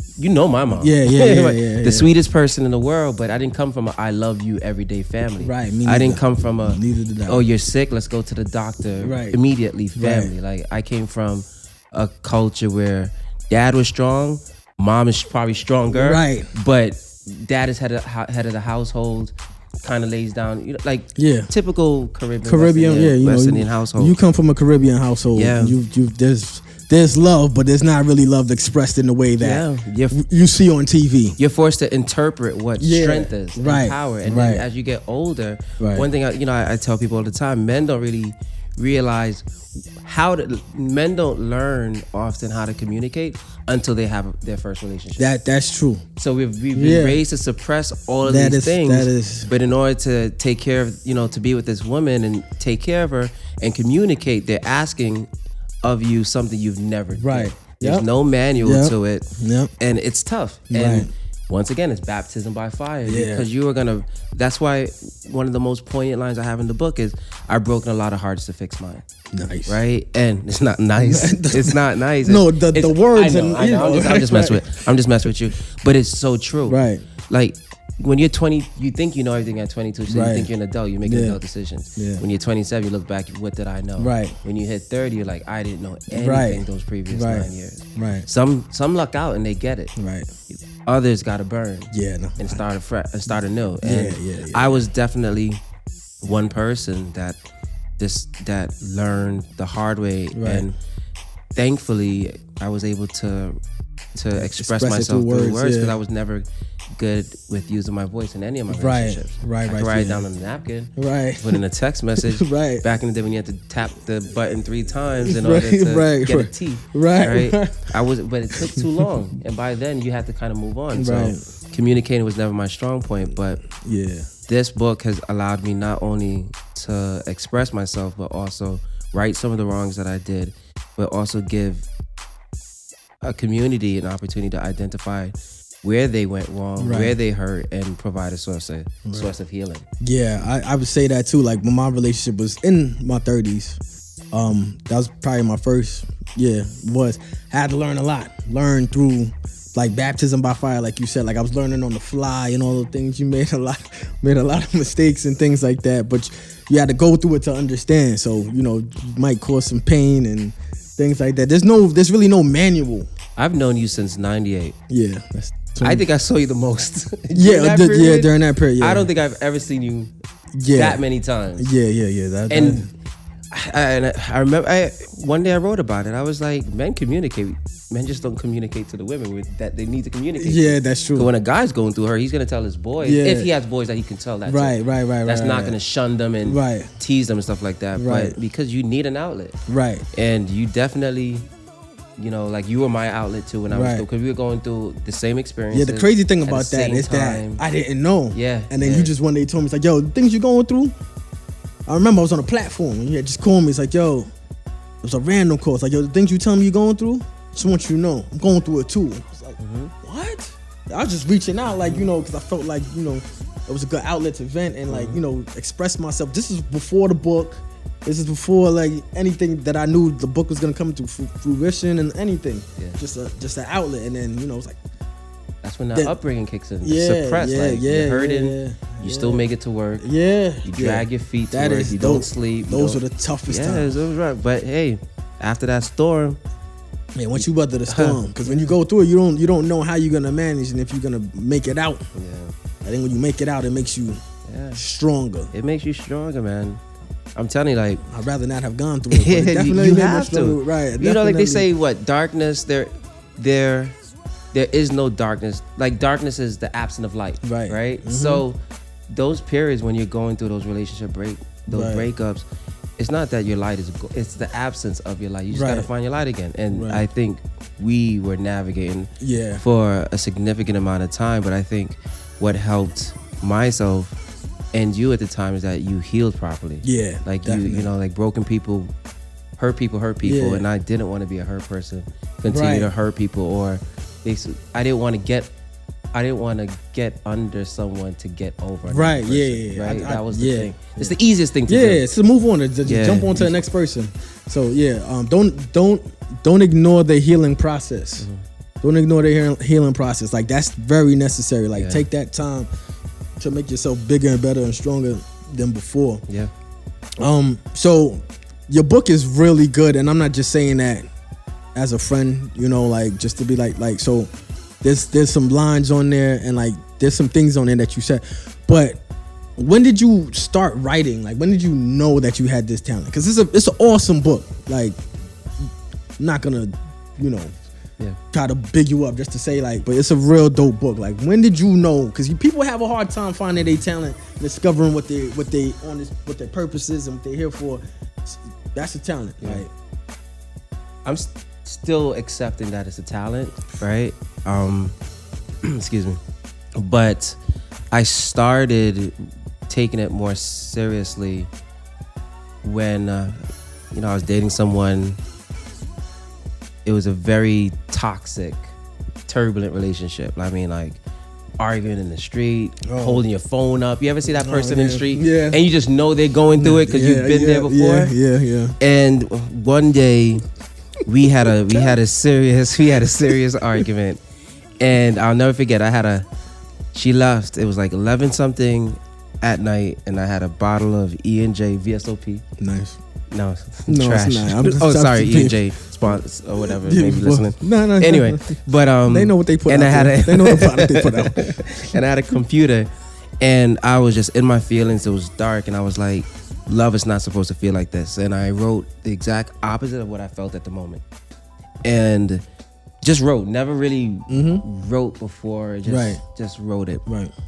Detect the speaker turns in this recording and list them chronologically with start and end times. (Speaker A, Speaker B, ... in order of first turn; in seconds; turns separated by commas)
Speaker A: 0.2-24.2, Speaker B: 0.8-2.1, Speaker B: 5.4-7.4, Speaker B: 9.0-9.4, Speaker B: 9.9-10.3, Speaker B: 15.9-16.5, Speaker B: 21.1-21.5, Speaker B: 22.4-31.4, Speaker A: 25.3-25.8, Speaker A: 29.4-30.2, Speaker A: 31.4-39.5, Speaker B: 32.8-34.6, Speaker B: 35.8-36.1, Speaker A: 40.0-45.3, Speaker B: 45.2-46.0, Speaker A: 46.2-55.3, Speaker B: 46.7-47.2, Speaker B: 48.2-49.5, Speaker A: 55.8-59.2, Speaker B: 57.1-58.0, Speaker B: 58.6-59.7, Speaker A: 59.8-69.0, Speaker B: 60.7-61.1, Speaker B: 63.0-63.5, Speaker B: 69.3-69.8, Speaker A: 69.7-89.9, Speaker B: 71.0-74.8, Speaker B: 76.7-77.0, Speaker B: 80.1-80.5, Speaker B: 81.0-81.4, Speaker B: 82.0-82.2, Speaker B: 84.0-84.3, Speaker B: 86.1-88.3, Speaker B: 90.0-90.3, Speaker A: 90.5-95.6, Speaker B: 91.9-92.6, Speaker B: 93.8-94.8, Speaker A: 96.2-97.4, Speaker A: 98.0-100.8, Speaker B: 100.3-100.7, Speaker A: 101.5-103.6, Speaker A: 104.1-123.6, Speaker B: 104.3-106.0, Speaker B: 108.7-110.2, Speaker B: 111.0-111.6, Speaker B: 112.2-112.8, Speaker B: 115.2-117.9, Speaker B: 118.6-119.0, Speaker B: 120.9-121.4, Speaker B: 123.8-124.3, Speaker A: 124.5-131.9, Speaker A: 133.2-139.8, Speaker B: 136.8-137.2, Speaker B: 139.0-139.3, Speaker B: 140.0-143.8, Speaker B: 144.3-163.1, Speaker A: 163.3-164.7, Speaker B: 164.9-166.0, Speaker A: 165.8-170.1, Speaker B: 167.3-169.1, Speaker B: 170.5-171.0, Speaker A: 170.7-171.7, Speaker B: 171.6-172.9, Speaker A: 172.5-172.9, Speaker A: 173.5-189.6, Speaker B: 180.4-181.3, Speaker B: 183.0-183.5, Speaker B: 184.4-185.8, Speaker B: 186.4-186.9, Speaker B: 187.9-188.4, Speaker B: 189.7-190.1, Speaker A: 190.1-191.5, Speaker A: 192.2-197.6, Speaker B: 193.7-194.1, Speaker B: 195.7-200.9, Speaker A: 198.3-199.1, Speaker B: 201.8-204.3, Speaker B: 205.0-224.8, Speaker A: 209.6-209.9, Speaker A: 211.7-212.0, Speaker A: 214.9-215.2, Speaker A: 225.6-230.1, Speaker B: 226.8-229.4, Speaker B: 230.0-234.0, Speaker A: 230.6-236.4, Speaker B: 237.2-242.1, Speaker A: 237.4-238.7, Speaker A: 242.1-242.5, Speaker B: 242.8-244.2, Speaker A: 244.4-244.8, Speaker B: 244.8-245.5, Speaker A: 245.5-246.8, Speaker A: 247.3-248.0, Speaker B: 248.1-251.7, Speaker A: 249.1-254.0, Speaker A: 254.5-262.4, Speaker B: 257.4-258.4, Speaker B: 261.7-262.1, Speaker A: 263.0-274.1, Speaker B: 265.5-265.9, Speaker B: 266.7-267.0, Speaker B: 269.2-269.6, Speaker A: 274.7-278.9, Speaker B: 276.8-277.9, Speaker A: 279.6-285.5, Speaker B: 280.2-280.7, Speaker B: 282.5-282.9, Speaker A: 286.1-292.0, Speaker B: 288.9-291.1, Speaker B: 291.7-298.3, Speaker A: 292.8-293.6, Speaker A: 298.2-298.4, Speaker B: 298.8-302.7, Speaker A: 301.7-302.1, Speaker B: 303.4-306.2, Speaker B: 307.2-311.1, Speaker B: 311.7-314.3, Speaker B: 314.8-319.0, Speaker B: 319.6-325.0, Speaker B: 326.2-327.5, Speaker B: 328.3-339.7, Speaker A: 341.0-345.0, Speaker A: 345.6-346.2, Speaker A: 346.8-347.4, Speaker A: 347.9-351.5, Speaker A: 352.6-353.4, Speaker A: 353.9-355.2, Speaker A: 356.8-358.7, Speaker A: 359.3-361.0, Speaker A: 361.6-368.1, Speaker B: 362.8-363.2, Speaker B: 364.2-365.6, Speaker B: 366.6-368.8, Speaker A: 368.8-370.4, Speaker A: 371.0-374.2, Speaker A: 374.8-376.2, Speaker A: 376.9-382.4, Speaker B: 382.6-383.0, Speaker A: 383.3-392.9, Speaker B: 383.9-385.6, Speaker B: 386.6-391.6, Speaker A: 393.4-401.0, Speaker A: 401.8-402.4, Speaker A: 403.0-407.0, Speaker B: 404.3-404.6, Speaker B: 405.9-406.2, Speaker B: 407.1-407.3